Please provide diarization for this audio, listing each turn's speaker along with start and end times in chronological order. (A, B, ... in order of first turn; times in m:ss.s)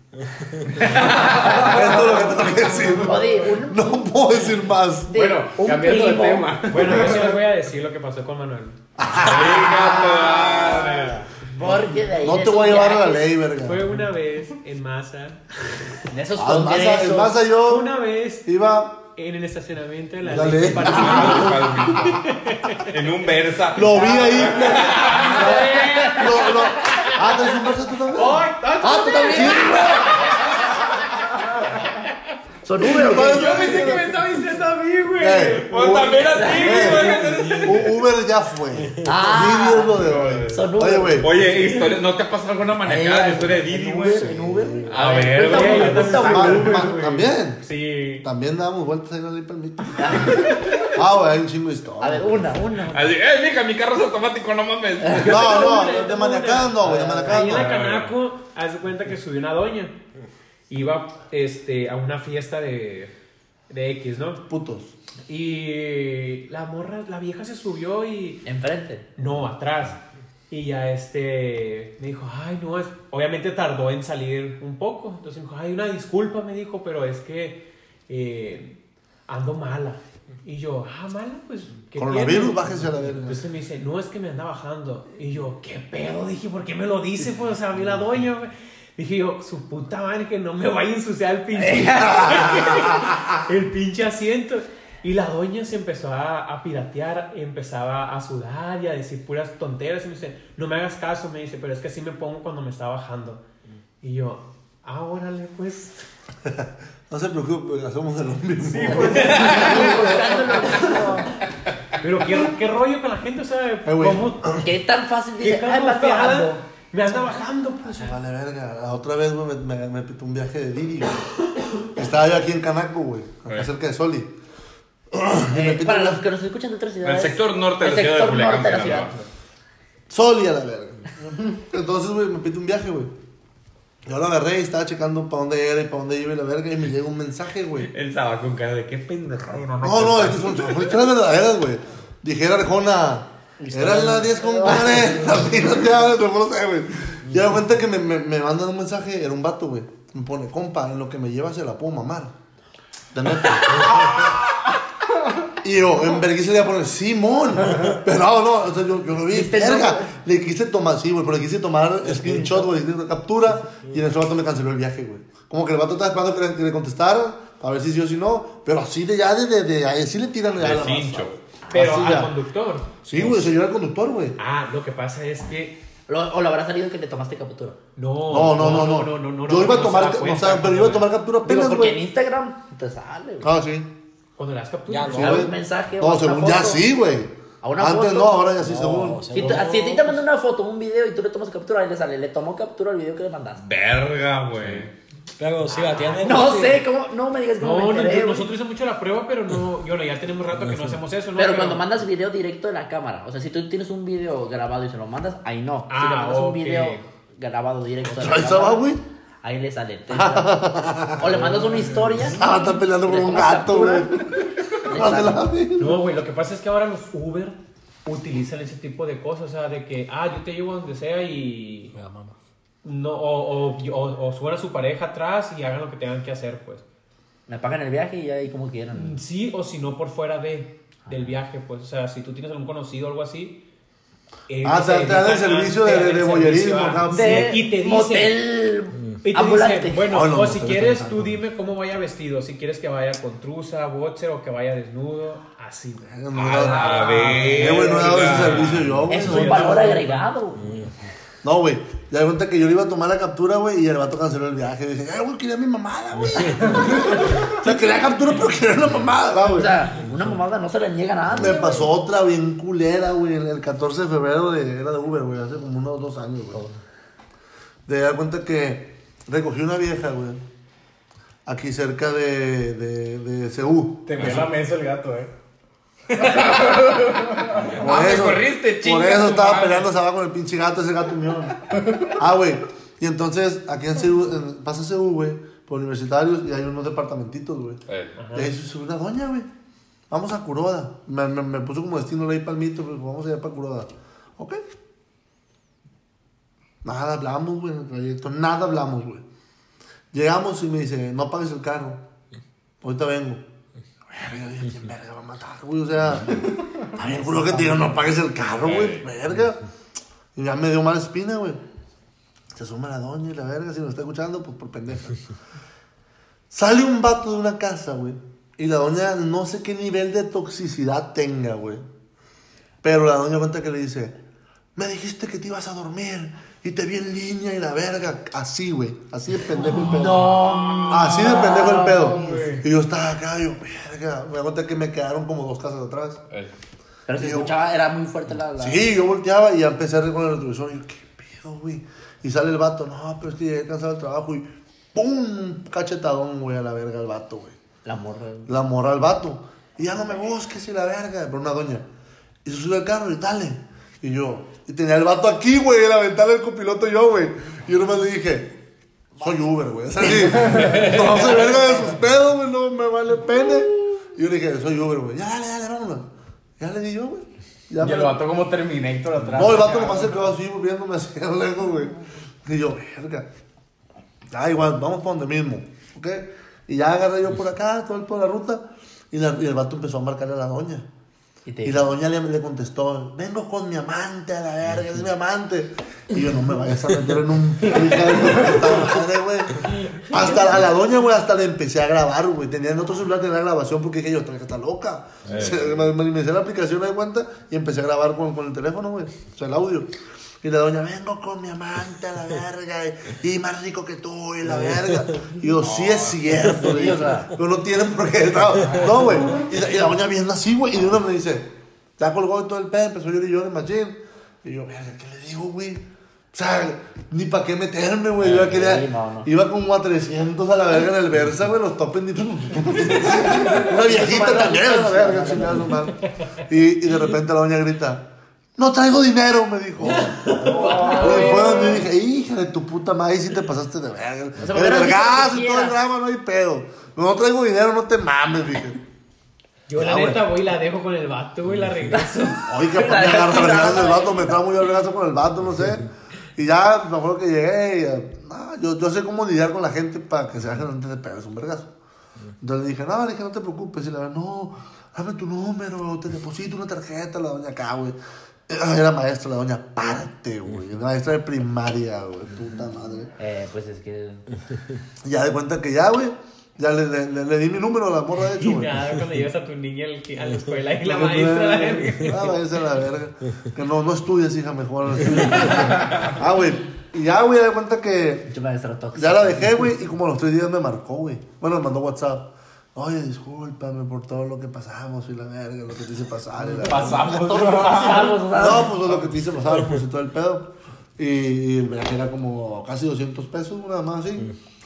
0:00.8-0:01.7 A
0:00.9-0:05.1 B
0:01.0-0:04.0 C
0:05.1-0:06.6 C
0:05.1-0:07.4 D
0:06.7-0:08.8 E
0:09.0-0:10.8 B
0:09.2-0:11.2 A
0:09.6-0:13.3 C
0:12.2-0:13.9 B
0:13.6-0:15.4 E
0:16.1-0:17.4 C
0:16.4-0:19.0 B
0:17.6-0:18.5 E
0:19.2-0:22.9 E
0:20.2-0:22.1 B
0:20.7-0:22.2 A
0:22.8-0:25.7 A
0:23.7-0:28.5 B
0:23.9-0:26.9 E
0:25.1-0:27.1 C
0:28.1-0:30.9 E
0:28.8-0:30.4 C
0:29.2-0:29.9 B
0:32.6-0:33.9 C
0:32.8-0:34.2 B
0:32.9-0:37.7 E
0:35.2-0:41.3 B
0:35.6-0:38.0 A
0:36.3-0:37.2 C
0:39.0-0:42.0 C
0:41.2-0:46.1 A
0:42.8-0:46.9 C
0:44.3-0:45.0 B
0:45.0-0:48.3 E
0:45.7-0:47.7 B
0:48.2-0:52.6 B
0:50.0-0:50.8 C
0:52.0-0:53.1 C
0:52.9-0:55.6 A
0:55.0-0:55.4 C
0:55.2-0:57.7 B
0:55.3-0:59.9 E
0:57.3-0:58.2 A
1:00.7-1:03.1 E
1:03.7-1:04.4 E
1:04.5-1:04.9 B
1:05.3-1:08.4 E
1:08.4-1:09.1 C
1:09.2-1:43.4 E
1:22.0-1:23.4 B
1:31.6-1:32.3 C
1:32.1-1:33.2 B
1:44.0-1:46.0 E
1:46.4-1:51.0 B
1:48.6-1:50.7 E
1:48.9-1:51.3 C
1:52.0-1:54.5 E
1:53.9-1:54.7 B
1:54.5-1:56.6 C
1:55.4-1:58.2 E
1:57.8-2:01.2 B
2:01.9-2:04.3 B
2:05.1-2:06.2 B
2:05.5-2:09.1 C
2:07.0-2:09.2 A
2:10.1-2:13.1 B
2:14.0-2:17.9 B
2:17.9-2:21.0 A
2:19.8-2:32.3 B
2:23.6-2:25.4 C
2:33.1-2:34.4 B
2:35.6-2:52.3 B
2:39.3-2:40.1 C
2:50.6-2:51.3 A
2:51.7-2:52.2 C
2:51.7-2:52.9 E
2:53.0-2:54.4 B
2:54.4-2:55.8 E
2:56.1-2:57.8 C
2:58.0-3:01.1 E
2:58.3-3:02.0 B
3:01.4-3:03.5 C
3:03.4-3:03.9 B
3:04.4-3:05.5 E
3:04.9-3:05.4 F
3:05.2-3:09.3 B
3:05.2-3:06.8 C
3:07.6-3:08.5 C
3:08.6-3:09.7 F
3:09.3-3:13.6 C
3:09.3-3:10.2 E
3:13.6-3:14.9 A
3:15.4-3:16.8 F
3:15.7-3:16.6 E
3:16.0-3:18.5 C
3:17.6-3:21.8 E
3:21.4-3:32.5 C
3:25.9-3:27.1 E
3:28.1-3:29.0 B
3:30.1-3:31.6 B
3:32.3-3:36.0 B
3:33.0-3:34.2 C
3:34.9-3:35.4 C
3:35.8-3:42.0 E
3:42.0-3:42.3 F
3:42.8-3:46.8 E
3:47.5-3:49.2 C
3:48.9-3:53.6 E
3:54.5-3:58.4 E
3:54.6-3:57.6 B
3:57.1-4:00.2 C
3:59.2-4:10.2 E
4:00.1-4:01.3 B
4:06.1-4:10.0 B
4:06.3-4:09.0 A
4:09.1-4:10.8 C
4:10.6-4:10.9 F
4:11.4-4:19.7 B
4:16.6-4:17.0 C
4:19.4-4:21.9 C
4:21.3-4:26.6 B
4:27.9-4:30.4 B
4:31.5-4:34.4 B
4:34.1-4:35.3 D
4:36.2-4:37.3 D
4:36.2-4:39.9 A
4:37.8-4:47.8 B
4:47.9-4:48.2 A
4:48.2-4:48.5 E
4:48.3-4:49.5 B
4:50.1-4:54.6 B
4:56.8-4:59.2 B
5:00.1-5:02.0 B
5:02.8-5:03.4 B
5:04.1-5:09.6 B
5:07.0-5:07.9 C
5:08.6-5:09.1 A
5:10.4-5:11.6 B
5:12.5-5:15.2 B
5:16.5-5:21.8 B
5:22.8-5:24.2 B
5:24.8-5:36.2 B
5:29.9-5:31.6 C
5:30.0-5:32.6 D
5:37.1-5:38.8 C
5:37.2-5:37.6 B
5:38.6-5:47.6 B
5:47.8-5:48.5 C
5:48.5-5:51.9 B
5:52.4-5:58.6 B
5:59.2-6:08.2 B
6:00.5-6:00.8 D
6:07.8-6:10.3 D
6:09.3-6:13.3 B
6:14.3-6:20.9 B
6:21.5-6:21.9 C
6:21.6-6:39.9 B
6:30.1-6:30.6 C
6:35.3-6:35.9 A
6:40.4-7:18.8 B
6:45.6-6:46.5 A
6:46.5-6:47.3 C
6:58.2-6:59.3 C
7:03.1-7:05.8 C
7:09.9-7:11.8 C
7:10.4-7:11.8 E
7:14.4-7:15.8 C
7:19.7-7:22.5 E
7:19.7-7:20.2 B
7:22.4-7:31.7 B
7:22.7-7:24.4 C
7:32.4-7:38.0 B
7:38.5-7:43.1 B
7:43.2-7:44.2 C
7:45.0-7:48.9 B
7:48.4-7:52.4 E
7:50.8-7:58.3 B
7:58.3-7:59.7 C
7:59.0-8:14.3 B
8:06.4-8:08.2 D
8:07.7-8:08.7 C